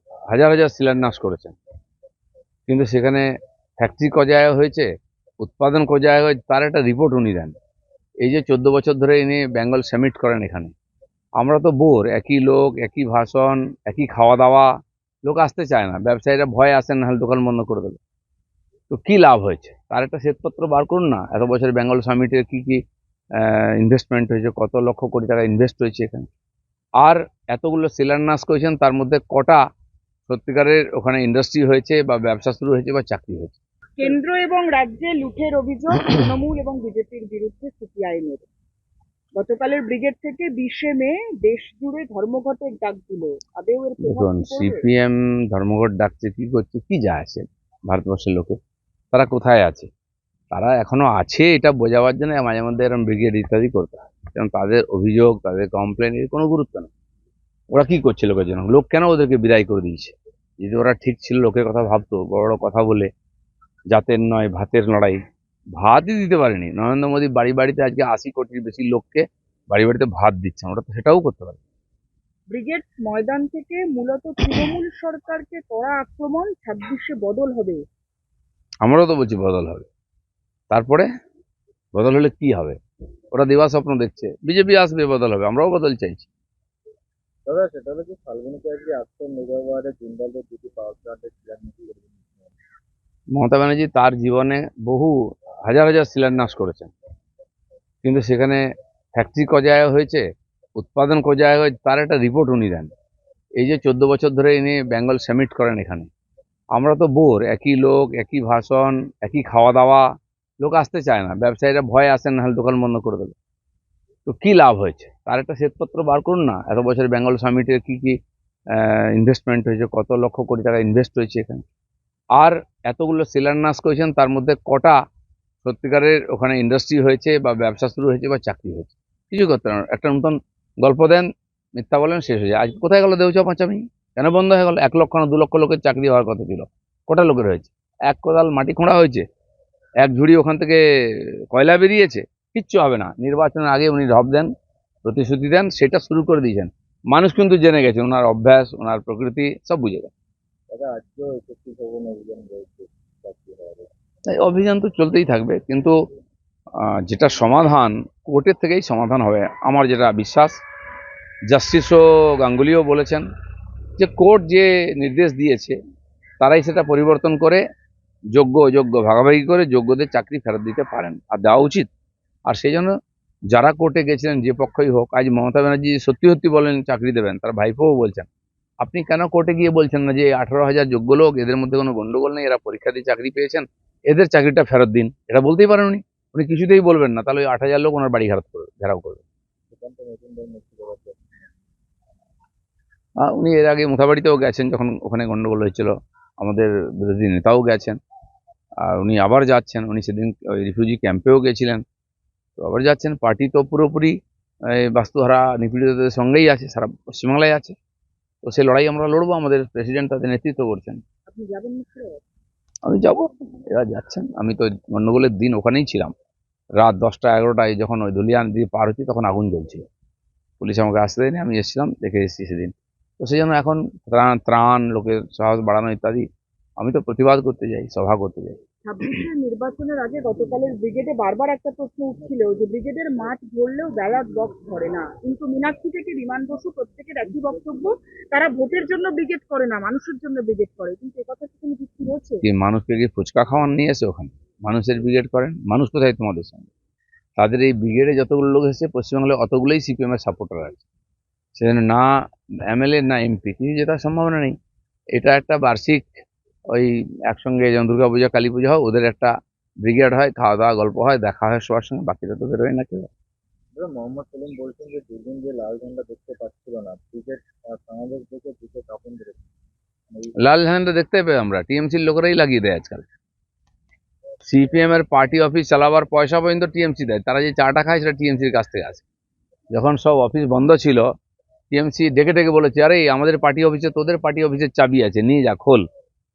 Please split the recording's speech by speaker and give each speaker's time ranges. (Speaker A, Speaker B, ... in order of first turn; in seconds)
Speaker A: 0.3-1.6, 2.7-3.3, 3.8-4.9, 5.4-7.5, 8.2-10.7, 11.4-14.7, 15.2-18.0, 18.9-22.8, 23.4-26.3, 27.0-29.6, 30.3-33.6, 44.0-48.6, 49.1-49.9, 50.5-56.9, 57.7-63.1, 63.9-65.2, 65.8-71.6, 78.8-79.9, 80.7-81.1, 82.0-82.8, 83.3-86.3, 93.3-95.2, 95.7-96.9, 98.0-98.6, 99.2-100.2, 100.8-102.9, 103.6-106.1, 106.7-110.1, 110.6-113.3, 114.3-118.2, 118.7-121.6, 122.4-125.0, 125.6-139.2, 140.0-144.5, 145.0-150.1, 154.3-155.9, 156.8-160.6, 161.5-163.3, 164.0-165.8, 166.4-167.6, 168.3-171.9, 172.5-172.9, 173.5-178.3, 178.8-189.2, 193.2-198.0, 198.8-201.8, 202.6-204.2, 204.8-207.8, 208.4-211.0, 212.8-216.1, 216.8-219.8, 220.6-226.2, 226.8-229.1, 242.4-246.7, 247.4-250.8, 251.6-252.1, 252.7-254.6, 255.2-259.3, 259.8-263.1, 270.4-273.1, 274.5-279.0, 279.7-281.1, 281.7-285.9
Speaker B: 34.0-38.5, 39.4-44.8, 72.5-77.8, 211.3-212.2, 228.9-242.4
Speaker C: 87.5-92.5, 150.7-153.9, 189.7-191.6, 263.7-269.4